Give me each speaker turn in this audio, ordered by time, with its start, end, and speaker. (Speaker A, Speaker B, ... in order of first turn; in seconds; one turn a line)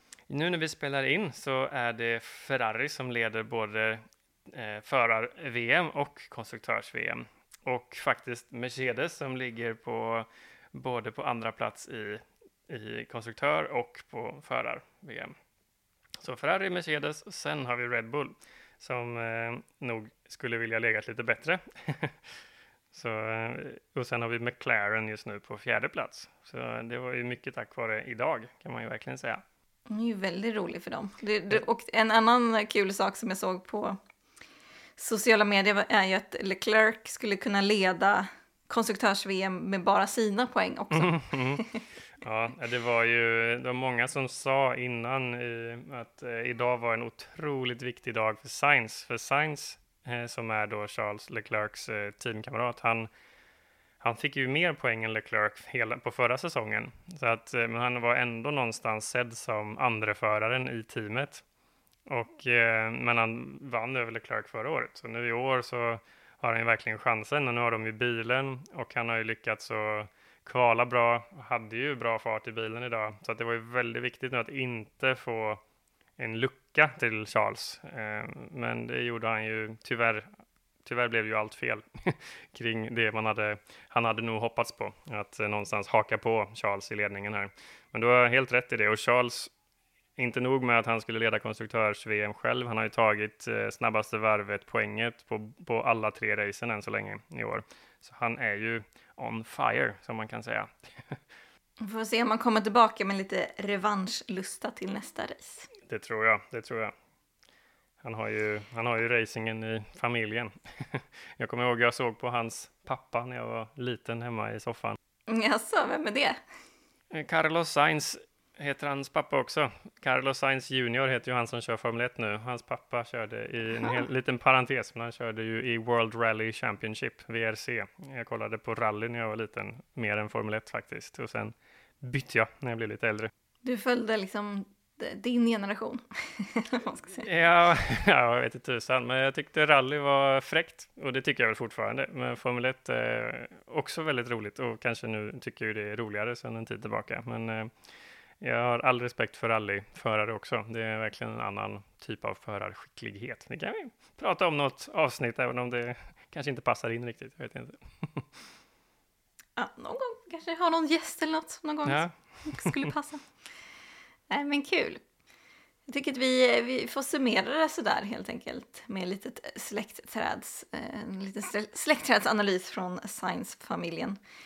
Speaker A: 0.3-15.3
Speaker A: 16.2-22.3
Speaker A: 22.9-29.4
Speaker B: 29.9-34.0
Speaker B: 35.0-41.8
Speaker A: 40.9-41.6
Speaker A: 42.2-53.1
Speaker A: 54.0-61.4
Speaker A: 62.1-75.6
Speaker A: 76.2-80.3
Speaker A: 80.8-89.5
Speaker A: 90.2-101.2
Speaker B: 101.8-105.7
Speaker A: 105.9-106.9
Speaker A: 108.0-115.0
Speaker B: 115.3-116.4
Speaker A: 117.1-133.3
Speaker B: 123.8-124.0
Speaker B: 133.6-137.3
Speaker A: 137.2-147.7
Speaker A: 148.4-158.3
Speaker B: 159.6-163.3
Speaker A: 161.9-162.9
Speaker B: 164.3-165.0
Speaker B: 165.9-174.2